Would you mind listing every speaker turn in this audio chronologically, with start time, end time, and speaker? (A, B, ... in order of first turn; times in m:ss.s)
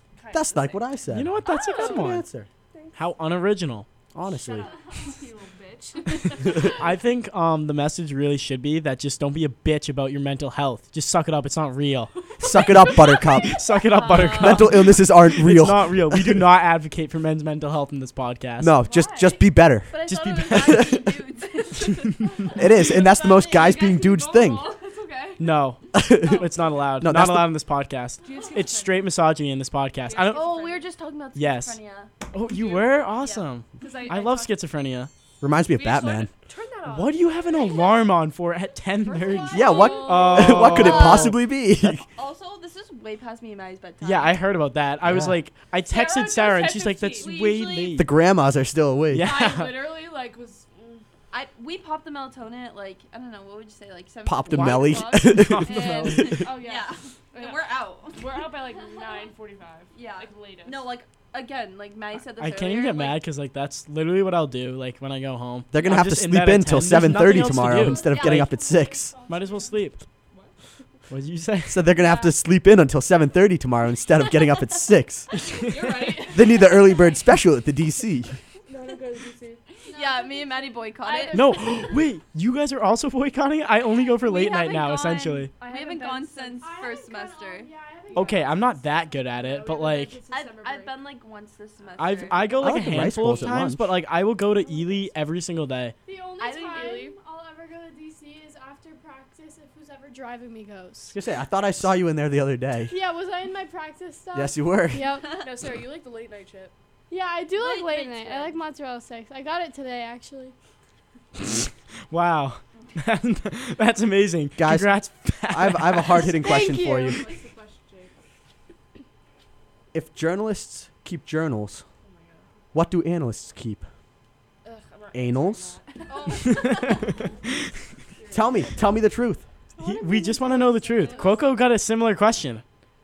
0:00.2-0:00.9 A
0:00.3-0:02.5 B
0:01.1-0:02.2 C
0:01.4-0:02.0 A
0:02.7-0:03.0 A
0:02.9-0:03.9 C
0:04.1-0:04.7 B
0:04.2-0:06.8 A
0:06.5-0:12.1 C
0:12.4-0:13.3 A
0:12.4-0:13.6 B
0:13.5-0:18.7 C
0:13.9-0:14.6 D
0:14.1-0:14.5 A
0:14.3-0:16.5 B
0:18.6-0:19.9 B
0:18.8-0:19.4 A
0:19.9-0:22.1 D
0:20.1-0:20.9 C
0:20.5-0:21.0 B
0:21.8-0:25.4 A
0:22.5-0:24.7 B
0:22.7-0:24.0 E
0:25.4-0:30.5 C
0:25.9-0:27.5 B
0:28.2-0:29.1 A
0:30.0-0:30.8 A
0:30.2-0:32.1 D
0:31.3-0:31.8 C
0:32.3-0:35.1 C
0:32.5-0:33.0 A
0:33.2-0:33.4 D
0:33.8-0:34.6 A
0:35.4-0:36.3 B
0:35.7-0:38.1 A
0:36.8-0:41.4 C
0:39.0-0:40.9 A
0:39.5-0:42.0 B
0:39.9-0:41.3 D
0:42.0-0:44.4 D
0:44.0-0:48.1 C
0:45.0-0:45.4 B
0:45.9-0:47.3 A
0:47.1-0:48.0 D
0:47.9-0:49.3 B
0:49.1-0:49.8 C
0:49.2-0:51.0 A
0:51.3-0:59.2 D
0:54.2-0:56.5 B
0:54.5-0:56.3 C
0:56.3-1:00.9 A
0:59.9-1:03.2 D
1:02.4-1:08.5 C
1:05.7-1:09.1 B
1:08.1-1:08.4 D
1:08.3-1:09.6 A
1:08.6-1:09.8 E
1:09.3-1:10.0 C
1:11.1-1:11.8 C
1:11.7-1:15.3 B
1:12.0-1:12.3 A
1:15.5-1:16.7 A
1:16.2-1:18.4 B
1:18.6-1:19.6 A
1:19.8-1:20.9 E
1:19.9-1:21.4 D
1:21.0-1:21.4 A
1:21.3-1:25.5 C
1:21.5-1:22.0 E
1:24.2-1:27.7 D
1:25.6-1:26.6 A
1:26.6-1:29.0 E
1:28.1-1:28.4 A
1:28.1-1:30.2 C
1:29.3-1:31.1 A
1:30.3-1:32.7 D
1:31.8-1:32.4 A
1:32.0-1:35.9 C
1:32.6-1:33.9 B
1:36.0-1:41.1 E
1:36.4-1:37.2 D
1:41.1-1:42.9 B
1:42.9-1:45.4 E
1:44.3-1:45.1 B
1:45.4-1:46.7 A
1:47.1-1:50.5 E
1:47.6-1:48.6 D
1:51.5-1:56.4 C
1:54.6-1:57.2 B
1:56.4-1:57.3 E
1:57.0-1:58.1 A
1:59.9-2:01.8 B
2:02.0-2:02.5 A
2:02.7-2:03.8 B
2:04.6-2:08.8 A
2:05.1-2:05.8 B
2:06.1-2:07.1 E
2:06.4-2:07.1 C
2:08.3-2:09.4 B
2:09.8-2:11.5 E
2:09.8-2:12.6 C
2:10.9-2:11.6 A